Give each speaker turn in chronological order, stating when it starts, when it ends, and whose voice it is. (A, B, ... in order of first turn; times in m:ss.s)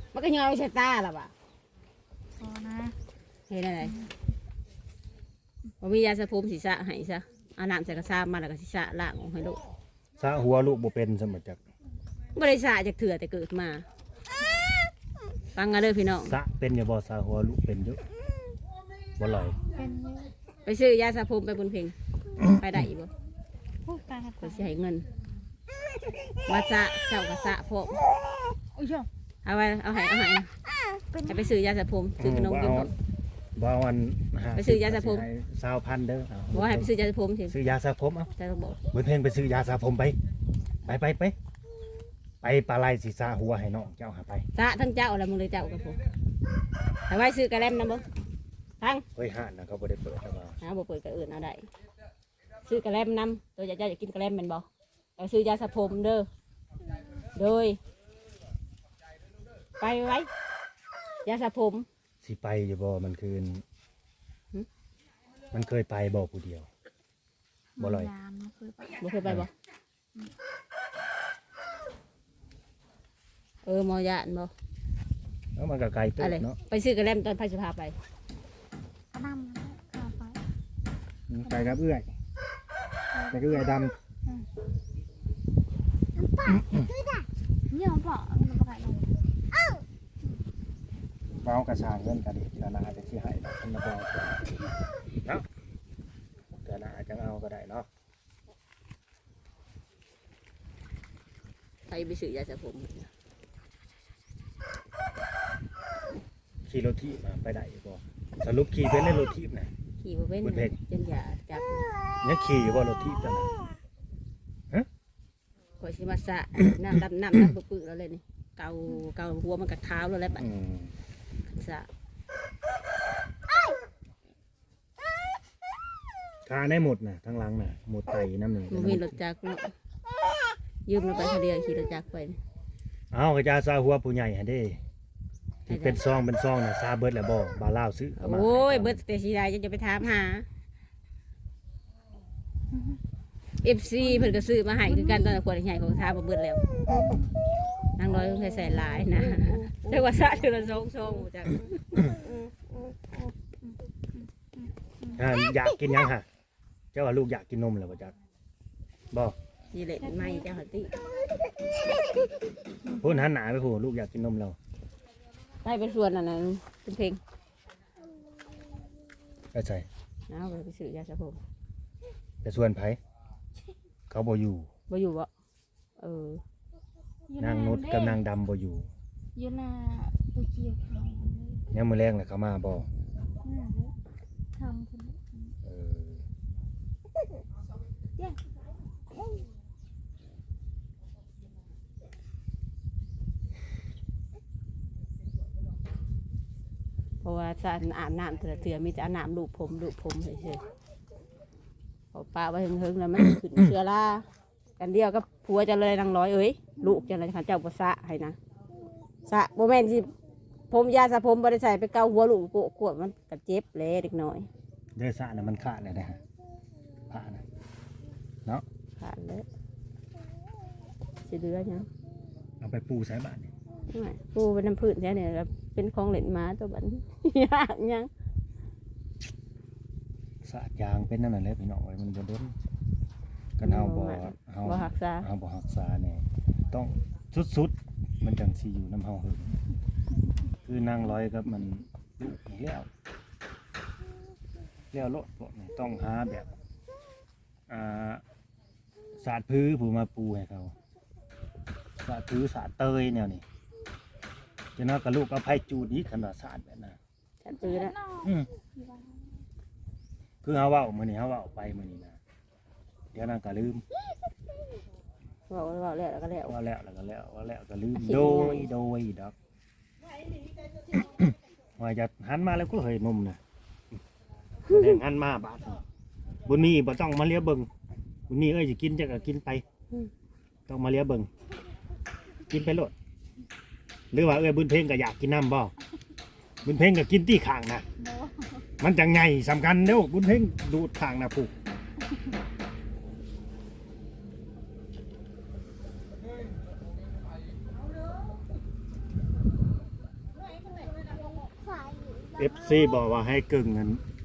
0:00.1-0:01.3 A
0:02.4-0:03.0 B
0:03.5-0:03.9 A
0:03.8-0:04.1 B
0:05.8-0:09.6 A
0:10.2-0:11.6 C
0:12.4-0:13.8 A
0:15.6-0:16.4 A
0:16.2-0:18.0 C
0:19.2-0:19.6 C
0:19.7-0:20.3 B
0:20.6-0:23.1 A
0:23.9-0:24.7 B
0:24.4-0:25.0 A
0:26.5-0:28.0 A
0:28.8-0:29.1 B
0:29.4-0:30.5 A
0:31.0-0:31.6 B
0:31.3-0:32.9 A
0:32.2-0:32.9 C
0:33.6-0:36.9 C
0:34.6-0:35.3 A
0:36.5-0:37.6 A
0:37.5-0:38.3 C
0:38.4-0:38.8 A
0:38.9-0:40.2 C
0:40.8-0:41.4 C
0:42.4-0:44.5 C
0:44.5-0:46.0 A
0:47.1-0:48.0 A
0:49.2-0:50.6 C
0:50.6-0:51.6 A
0:52.6-0:54.7 A
0:55.2-0:56.3 A
0:57.4-0:57.8 A
0:59.8-1:00.3 A
1:01.3-1:01.9 A
1:02.2-1:03.6 C
1:05.5-1:06.7 C
1:07.8-1:09.1 B
1:07.8-1:08.1 C
1:09.0-1:09.5 A
1:13.6-1:14.5 A
1:15.6-1:16.6 C
1:16.2-1:18.0 A
1:19.1-1:20.4 B
1:21.3-1:22.1 C
1:21.5-1:21.8 B
1:23.1-1:24.5 B
1:23.3-1:23.9 C
1:26.4-1:26.9 C
1:27.7-1:29.2 B
1:31.4-1:34.6 C
1:36.5-1:37.9 C
1:41.9-1:43.1 A
1:46.7-1:49.7 C
1:50.0-1:51.9 A
1:50.4-1:50.8 C
1:52.2-1:53.5 C
1:55.8-2:00.5 A
2:00.4-2:00.9 C
2:01.5-2:01.9 A
2:06.4-2:09.2 C
2:08.7-2:09.7 A
2:10.9-2:12.4 A
2:13.1-2:14.8 C
2:15.7-2:19.0 C
2:15.7-2:16.0 A
2:18.2-2:20.5 A
2:22.7-2:23.0 B
2:23.6-2:26.7 A
2:24.0-2:25.4 B
2:26.9-2:27.3 B
2:28.0-2:32.2 A
2:28.4-2:30.0 B
2:34.2-2:35.2 B
2:35.2-2:36.3 C
2:36.9-2:38.1 C
2:39.7-2:40.9 A
2:40.0-2:40.5 B
2:42.8-2:43.2 B
2:42.9-2:44.6 C
2:45.6-2:47.2 A
2:49.5-2:49.9 C
2:50.3-2:51.4 A
2:52.4-2:53.0 C
2:54.1-2:54.7 C
2:54.9-2:55.3 A
2:56.0-2:56.4 A
2:57.3-2:58.2 B
2:57.4-2:58.9 C
2:59.4-3:01.6 B
3:01.7-3:02.9 C
3:03.4-3:03.9 B
3:04.5-3:05.5 B
3:05.6-3:06.2 C
3:17.2-3:20.6 A
3:22.1-3:24.3 A
3:24.8-3:28.4 A
3:26.8-3:27.1 B
3:29.3-3:30.1 A
3:30.7-3:34.5 A
3:35.0-3:36.2 C
3:37.1-3:37.4 C
3:39.0-3:39.5 A
3:41.3-3:41.9 A
3:42.6-3:43.5 C
3:43.9-3:48.1 A
3:50.4-3:52.6 C
3:53.6-3:59.5 C
3:53.6-3:55.3 A
4:00.7-4:02.9 C
4:04.9-4:06.5 C
4:07.7-4:08.2 C
4:09.2-4:10.8 C
4:12.0-4:13.4 C
4:14.8-4:17.0 C
4:17.4-4:18.0 A
4:17.5-4:19.3 B
4:20.4-4:22.2 C
4:23.1-4:23.8 C
4:25.5-4:26.6 A
4:26.4-4:29.4 C
4:28.0-4:28.7 A
4:31.0-4:33.4 C
4:34.7-4:35.8 C
4:34.7-4:35.0 A
4:36.5-4:37.7 C
4:38.3-4:39.6 C
4:40.7-4:41.3 C
4:42.5-4:42.9 C
4:44.1-4:45.7 C
4:46.6-4:47.8 C
4:48.0-4:48.7 B
4:48.8-4:51.5 C
5:02.4-5:04.0 C